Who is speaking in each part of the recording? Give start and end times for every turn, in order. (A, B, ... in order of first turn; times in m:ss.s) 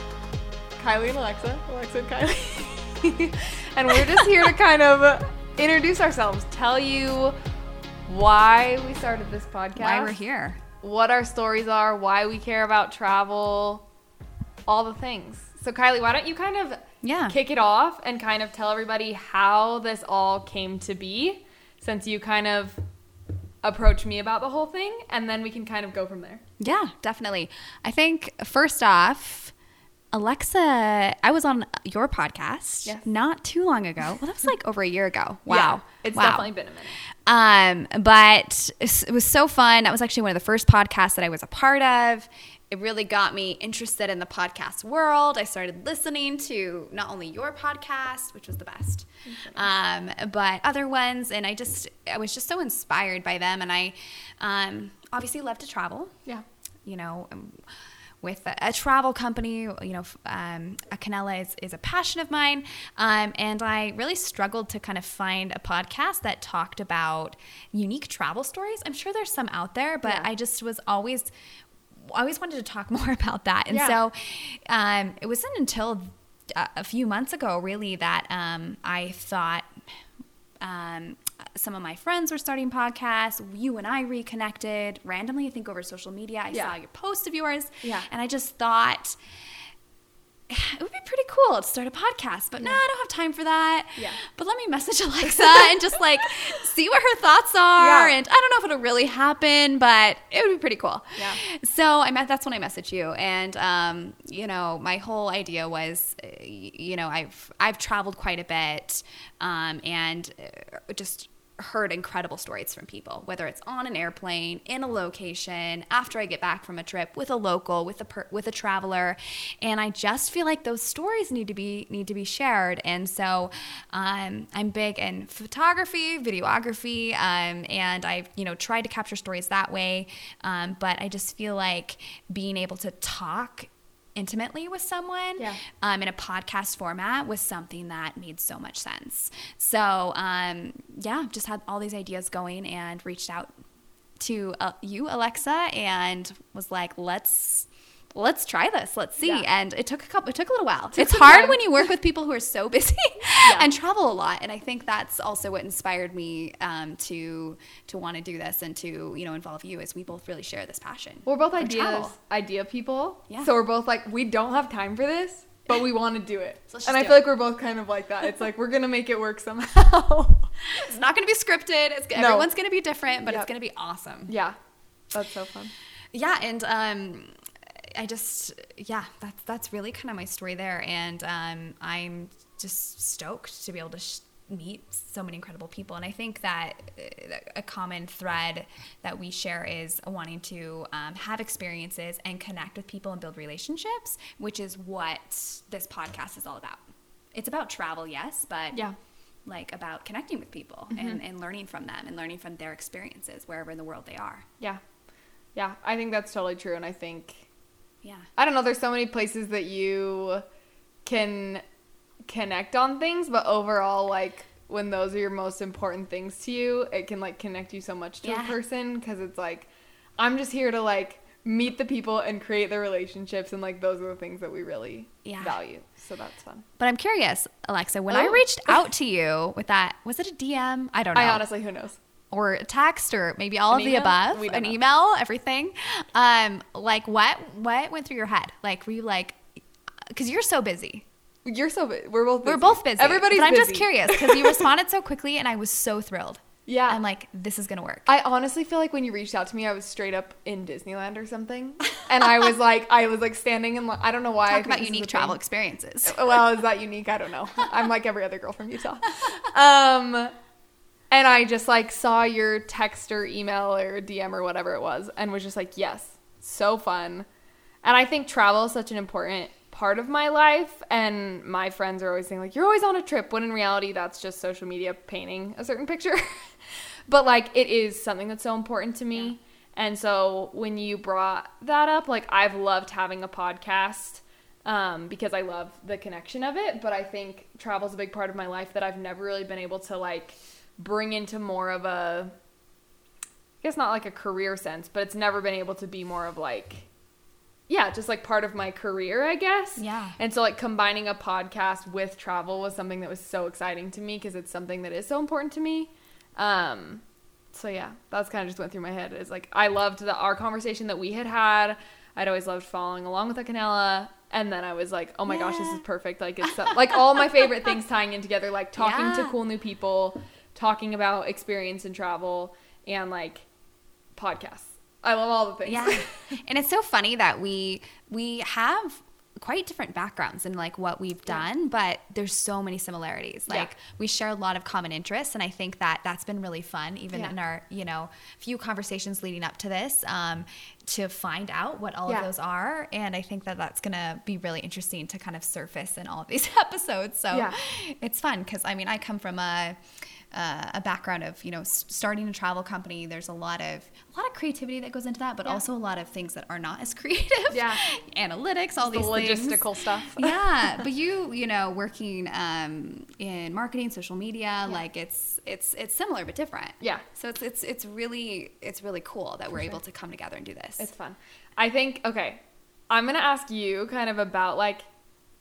0:00.8-0:07.4 A
0:08.1-0:10.2 A
0:09.8-0:10.6 B
0:10.8-0:13.8 A
0:14.7-0:22.8 A
0:17.0-0:17.4 B
0:23.6-0:26.4 A
0:26.6-0:29.5 B
0:30.1-0:36.5 B
0:35.5-0:37.0 A
0:37.2-0:56.2 B
0:49.3-0:49.7 A
0:56.8-1:11.3 B
1:12.0-1:19.8 B
1:13.7-1:14.0 A
1:20.6-1:29.2 B
1:27.8-1:28.1 A
1:30.5-2:23.5 B
1:37.8-1:38.2 A
1:41.2-1:41.4 A
2:24.2-2:42.2 B
2:29.2-2:29.4 A
2:30.9-2:31.9 A
2:33.4-2:33.7 A
2:41.3-2:50.5 A
2:46.7-2:47.3 B
2:50.7-2:54.3 B
2:52.2-2:52.5 A
2:54.3-2:54.6 A
2:55.1-2:55.7 A
2:56.1-2:57.3 B
2:57.9-3:16.8 B
3:17.3-3:18.8 B
3:19.5-3:24.5 B
3:20.9-3:21.2 A
3:25.6-3:27.5 A
3:28.0-3:28.3 B
3:28.4-3:30.4 A
3:31.0-3:31.6 A
3:32.3-3:46.6 A
3:38.2-3:38.6 B
3:45.2-3:45.6 B
3:46.8-3:51.4 B
3:48.1-3:48.4 A
3:51.1-3:52.0 A
3:52.3-3:59.4 B
3:53.7-3:54.8 A
4:00.1-4:01.1 B
4:01.4-4:04.7 A
4:02.4-4:08.1 B
4:06.7-4:07.0 A
4:08.1-4:15.4 A
4:14.5-4:16.4 B
4:16.0-4:20.3 A
4:21.1-4:27.3 A
4:27.8-4:52.3 A
4:53.6-4:56.9 A
4:57.7-5:23.5 A
4:59.8-5:00.2 B
5:15.3-5:15.8 B
5:18.8-5:19.4 B
5:24.2-5:26.4 A
5:25.7-5:49.8 B
5:47.3-5:47.6 A
5:50.3-6:10.9 B
5:57.5-5:57.8 A
5:58.8-6:00.8 A
6:06.8-6:07.0 A
6:10.8-6:14.8 A